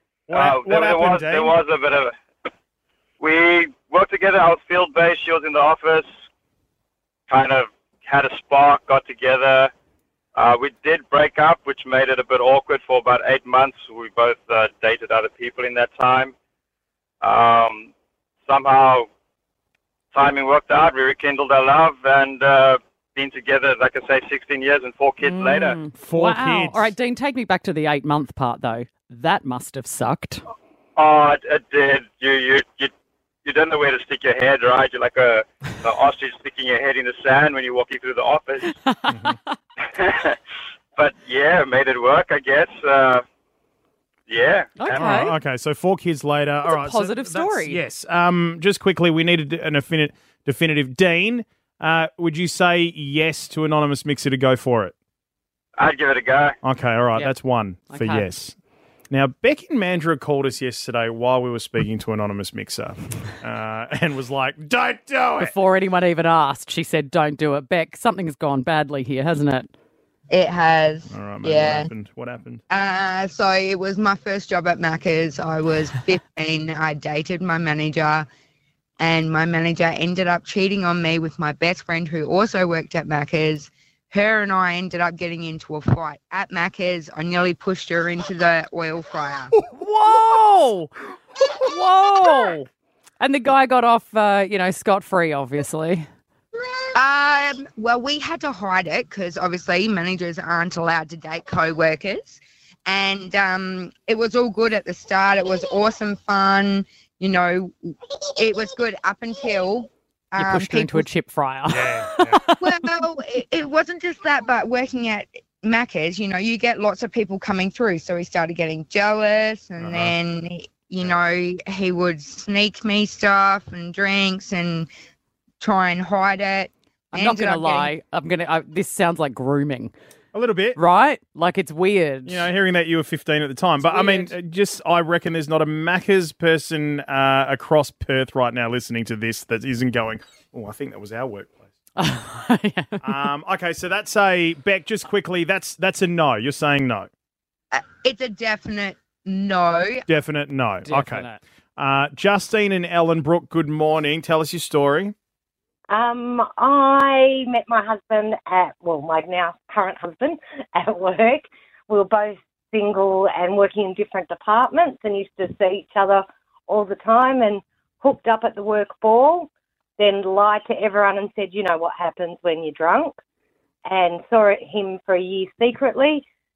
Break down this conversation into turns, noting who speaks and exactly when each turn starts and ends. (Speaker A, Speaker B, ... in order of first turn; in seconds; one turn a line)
Speaker A: 0.3-1.6
Speaker B: 0.3-2.1
Speaker B: 3.2-6.1
Speaker B: 7.3-9.7
Speaker B: 10.3-16.3
Speaker B: 17.2-17.9
Speaker B: 18.4-19.1
Speaker B: 20.1-25.8
Speaker C: 25.2-30.4
Speaker A: 25.9-26.9
Speaker B: 30.9-32.9
Speaker B: 33.4-38.7
Speaker C: 38.8-39.5
Speaker B: 39.9-40.4
Speaker B: 41.0-43.2
Speaker B: 44.3-45.3
Speaker C: 44.8-45.4
Speaker A: 44.9-54.9
Speaker C: 46.6-47.8
Speaker B: 55.8-56.6
Speaker A: 56.6-58.5
Speaker C: 57.9-58.3
Speaker A: 59.1-65.5
Speaker C: 65.4-69.7
Speaker D: 70.3-71.9
Speaker A: 71.1-72.6
Speaker D: 72.7-78.2
Speaker D: 79.0-89.5
Speaker C: 89.7-90.9
Speaker C: 91.6-92.7
Speaker C: 93.2-96.1
Speaker D: 96.9-111.0
Speaker C: 110.4-112.9
Speaker A: 111.7-112.4
Speaker D: 112.6-124.9
Speaker A: 119.8-120.1
Speaker D: 125.6-127.9
Speaker C: 127.1-129.9
Speaker A: 130.3-130.8
Speaker C: 130.8-132.5
Speaker A: 132.2-141.7
Speaker C: 133.8-134.3
Speaker C: 141.9-143.2
Speaker A: 143.0-147.1
Speaker D: 147.7-150.1
Speaker A: 150.1-155.1
Speaker C: 150.8-151.4
Speaker E: 155.9-173.2
Speaker E: 173.8-176.2